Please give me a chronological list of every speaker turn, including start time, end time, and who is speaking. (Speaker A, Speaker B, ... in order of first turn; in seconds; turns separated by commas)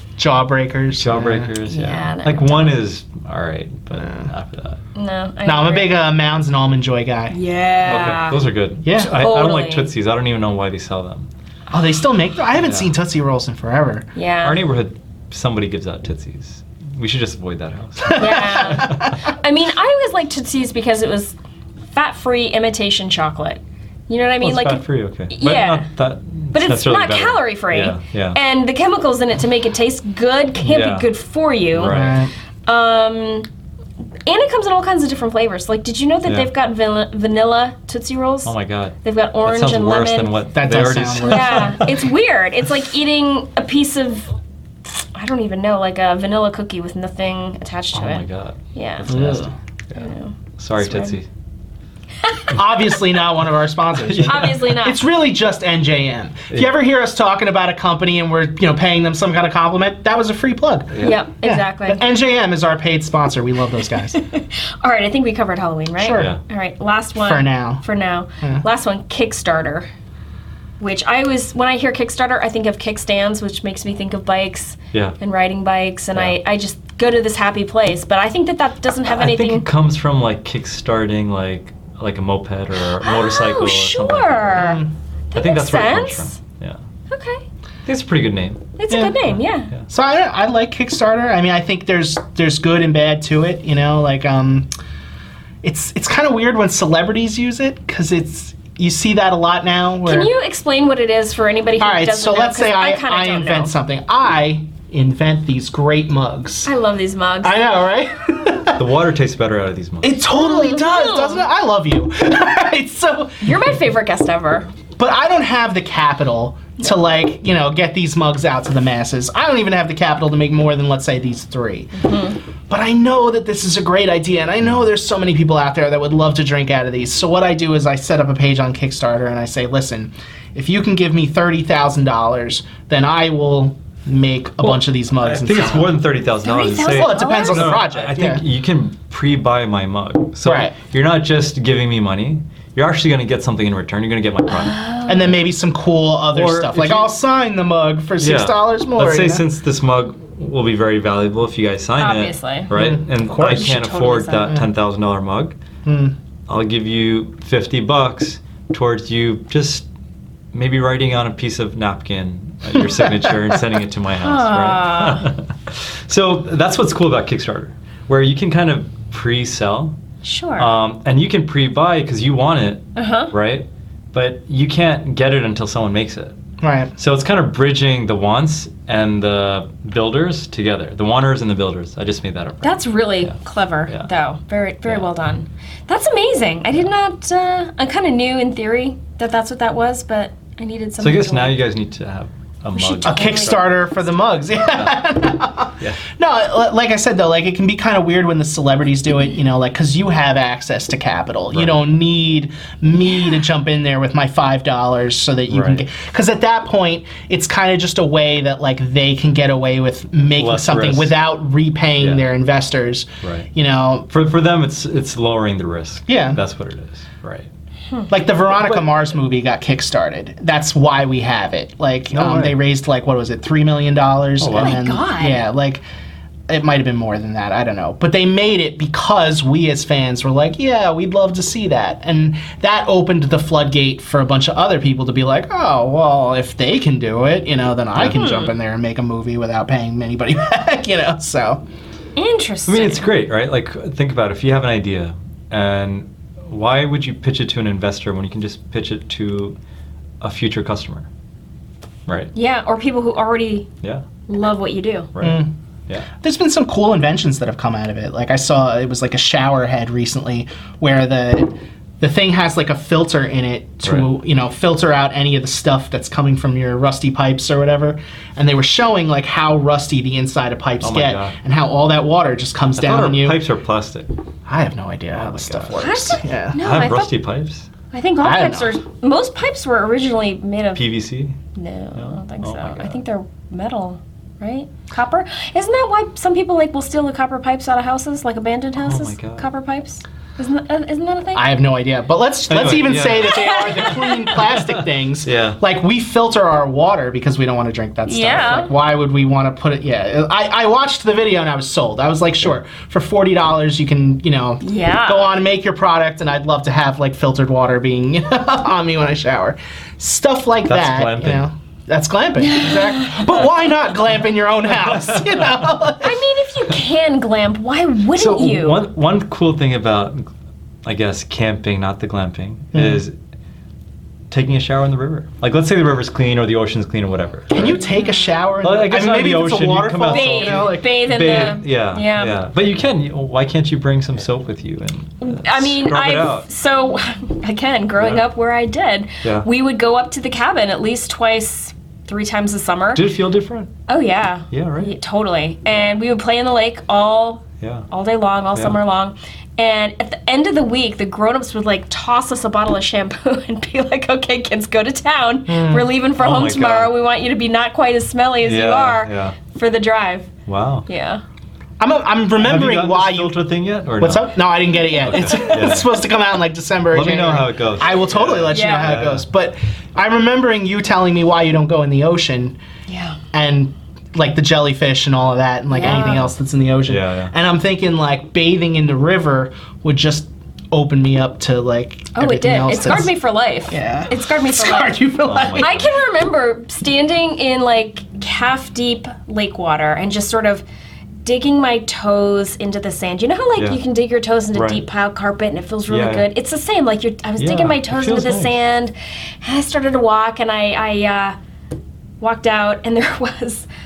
Speaker A: 0.2-1.5, Speaker B: 0.9-4.8, Speaker C: 1.7-2.7, Speaker A: 4.0-4.3, Speaker C: 4.9-5.9, Speaker A: 5.4-7.3, Speaker C: 7.3-8.4, Speaker B: 7.8-11.3, Speaker A: 8.8-9.2, Speaker C: 9.0-9.9, Speaker A: 11.7-14.1, Speaker B: 12.6-12.9, Speaker C: 14.1-14.6, Speaker B: 14.4-19.1, Speaker A: 18.1-19.0, Speaker C: 18.1-21.3, Speaker C: 21.9-25.9, Speaker B: 24.4-28.4, Speaker C: 26.5-32.1, Speaker B: 30.6-31.1, Speaker B: 31.7-32.2, Speaker A: 31.8-32.3, Speaker C: 32.6-33.5, Speaker C: 34.2-38.5, Speaker B: 38.4-42.0, Speaker C: 39.0-40.4, Speaker A: 40.5-41.8, Speaker C: 41.2-44.3, Speaker C: 44.8-51.2, Speaker B: 47.9-51.2, Speaker A: 49.1-49.5, Speaker A: 52.5-64.2, Speaker B: 53.9-54.8, Speaker C: 54.2-55.0, Speaker B: 60.9-61.2, Speaker C: 61.0-62.0, Speaker C: 64.1-69.9, Speaker A: 66.0-66.3, Speaker A: 67.2-67.8, Speaker C: 70.8-79.7, Speaker B: 74.9-75.2, Speaker B: 79.1-84.8, Speaker C: 83.0-86.3, Speaker A: 84.5-84.9, Speaker B: 85.3-86.8, Speaker C: 87.1-87.4, Speaker B: 87.8-88.7, Speaker C: 88.8-89.7, Speaker A: 88.9-89.2, Speaker A: 89.9-94.7, Speaker A: 95.6-100.3, Speaker C: 100.0-103.7, Speaker A: 101.8-106.7, Speaker C: 106.6-107.6, Speaker A: 107.4-108.8, Speaker B: 108.7-110.2, Speaker A: 110.0-113.6, Speaker C: 110.3-111.4, Speaker C: 113.4-114.7, Speaker A: 115.0-121.9, Speaker C: 121.9-122.4, Speaker A: 122.7-136.0, Speaker B: 134.6-144.8, Speaker C: 136.4-137.8, Speaker A: 136.7-138.4, Speaker A: 140.4-140.7, Speaker C: 144.5-145.4, Speaker A: 145.1-149.4, Speaker B: 146.3-147.1, Speaker B: 148.2-155.6, Speaker C: 152.0-152.7, Speaker A: 152.7-153.8, Speaker C: 153.3-154.6, Speaker A: 155.8-156.1, Speaker B: 156.5-159.9, Speaker B: 160.5-170.0, Speaker C: 164.2-165.3, Speaker C: 170.2-170.7, Speaker B: 170.6-176.4, Speaker C: 172.9-173.3, Speaker A: 176.6-176.9, Speaker B: 176.9-183.3, Speaker C: 182.6-191.6, Speaker B: 184.8-185.1, Speaker B: 191.0-193.8, Speaker C: 192.7-193.7, Speaker A: 193.0-214.1, Speaker B: 201.5-201.8, Speaker B: 205.5-205.8, Speaker B: 210.4-211.1, Speaker B: 212.0-212.3, Speaker B: 213.2-213.5, Speaker B: 214.1-217.5, Speaker A: 216.1-216.4, Speaker A: 218.1-225.8, Speaker B: 222.1-222.6, Speaker B: 224.4-224.9, Speaker C: 224.6-225.4, Speaker A: 226.5-241.6, Speaker C: 238.1-238.5, Speaker C: 242.2-243.1, Speaker B: 242.7-249.6, Speaker B: 250.2-251.1, Speaker B: 252.1-252.3, Speaker C: 252.3-253.7, Speaker C: 254.3-255.1, Speaker B: 255.1-256.1, Speaker A: 255.2-255.5, Speaker A: 256.2-273.4, Speaker B: 263.8-264.1, Speaker B: 270.8-271.3, Speaker B: 272.8-274.1, Speaker A: 274.4-276.6, Speaker B: 275.1-276.0, Speaker C: 275.7-277.1, Speaker B: 276.6-277.7, Speaker C: 277.9-280.8, Speaker A: 278.2-278.7, Speaker B: 280.7-281.4, Speaker C: 281.5-291.5, Speaker B: 281.9-283.0, Speaker B: 288.8-289.4, Speaker A: 291.3-316.2, Speaker B: 292.5-295.6, Speaker C: 293.3-294.4, Speaker C: 298.1-298.7, Speaker C: 304.6-305.3, Speaker B: 310.6-311.4, Speaker C: 312.4-313.4, Speaker B: 314.8-315.7, Speaker C: 316.0-318.8, Speaker B: 318.1-320.3, Speaker B: 320.8-323.1, Speaker A: 322.7-323.0, Speaker B: 324.3-327.8, Speaker A: 327.5-331.0, Speaker C: 327.6-328.3, Speaker B: 328.6-336.5, Speaker C: 330.1-332.4, Speaker C: 335.2-343.1, Speaker B: 338.0-338.2, Speaker B: 342.9-343.7, Speaker C: 343.9-360.3, Speaker B: 344.5-344.9, Speaker B: 347.6-347.9, Speaker A: 355.5-355.9, Speaker B: 356.1-356.9, Speaker B: 358.4-359.4, Speaker B: 360.4-360.9, Speaker C: 360.9-361.2, Speaker A: 361.8-363.4, Speaker B: 362.4-364.4, Speaker A: 364.0-372.6, Speaker B: 365.0-365.9, Speaker B: 366.9-369.2, Speaker C: 368.5-369.0, Speaker C: 372.9-373.2, Speaker A: 373.3-383.1, Speaker C: 375.7-376.2, Speaker B: 375.8-376.3, Speaker B: 376.9-377.3, Speaker C: 382.1-385.0, Speaker A: 383.7-385.8, Speaker B: 385.2-385.9, Speaker C: 385.6-390.6, Speaker C: 391.2-401.4, Speaker B: 394.5-394.8, Speaker B: 395.9-396.3, Speaker B: 397.4-398.6, Speaker C: 402.2-403.7